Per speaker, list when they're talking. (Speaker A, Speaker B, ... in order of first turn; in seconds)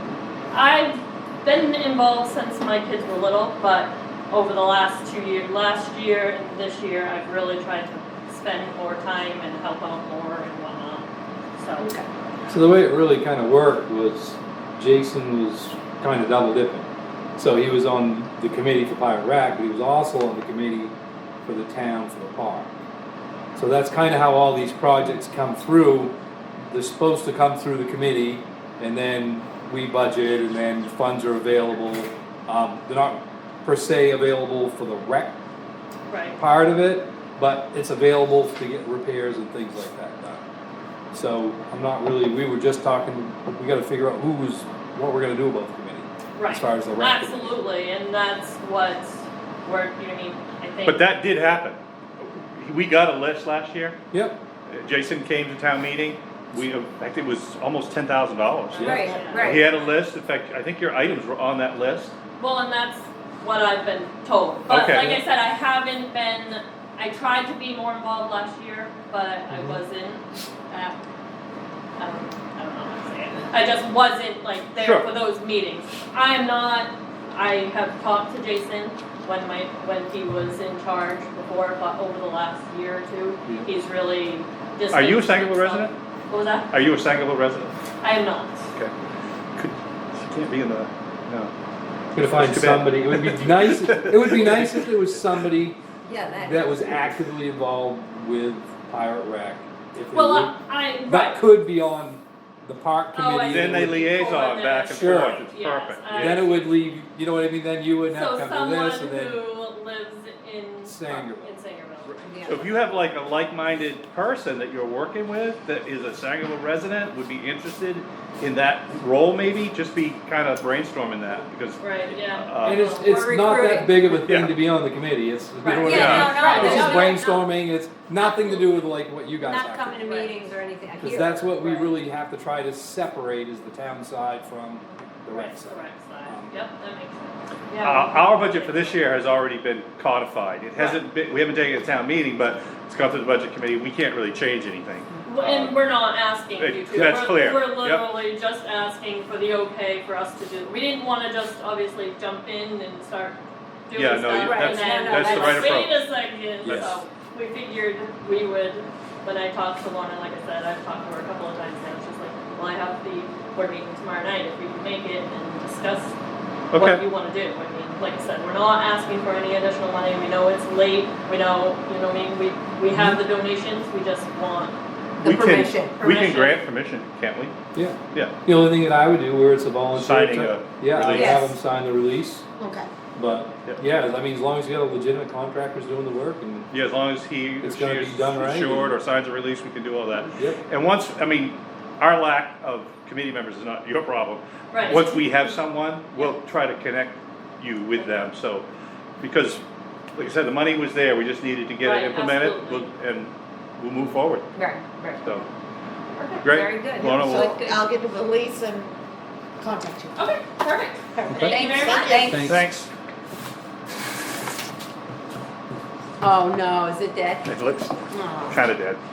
Speaker A: 0.5-11.9, 36.1-36.4, 46.4-51.0, 58.7-59.9, 62.4-71.0, 72.0-86.8, 88.0-88.6, 100.1-101.4, 103.1-106.7, 108.1-112.6, 121.8-124.0, 125.6-127.2, 130.0-130.5, 135.3-139.1, 145.2-166.1, 166.7-174.8, 176.0-176.6, 194.7-195.6, 201.8-202.9, 210.2-212.3
Speaker B: 12.5-20.9, 21.4-22.7, 23.5-26.1, 26.7-35.4, 36.4-40.4, 41.1-47.5, 54.1-54.4, 58.8-59.2, 69.5-69.8, 92.1-95.8, 96.3-104.1, 104.9-105.5, 106.1-109.4, 110.8-111.5, 122.6-130.0, 131.0-136.6, 172.9-173.2, 177.7-182.5, 183.1-186.7, 187.6-188.9, 190.3-190.6, 212.3-212.7
Speaker C: 50.8-54.0, 54.7-62.1, 64.7-65.2, 74.8-75.1, 84.9-85.9, 86.7-87.8, 89.5-91.5, 92.3-94.9, 103.5-106.5, 112.4-122.9, 124.2-124.5, 125.9-127.0, 137.8-145.7, 146.6-148.1, 153.9-156.0, 156.6-157.0, 166.7-167.0, 175.2-177.5, 179.9-181.4, 186.7-198.7, 199.2-199.6, 200.2-204.5, 206.4-207.5, 212.4-212.9, 217.4-219.0
Speaker D: 58.8-59.7, 96.0-97.0, 112.2-112.7, 123.5-123.8, 125.8-127.5, 128.2-128.8, 129.4-132.0, 154.3-155.8, 175.2-176.0, 181.1-181.5, 204.5-205.3, 206.2-207.9, 211.3-212.5, 216.2-217.5, 218.2-218.6
Speaker E: 182.6-182.9, 207.0-208.9, 209.6-210.2, 211.1-212.5, 218.1-218.5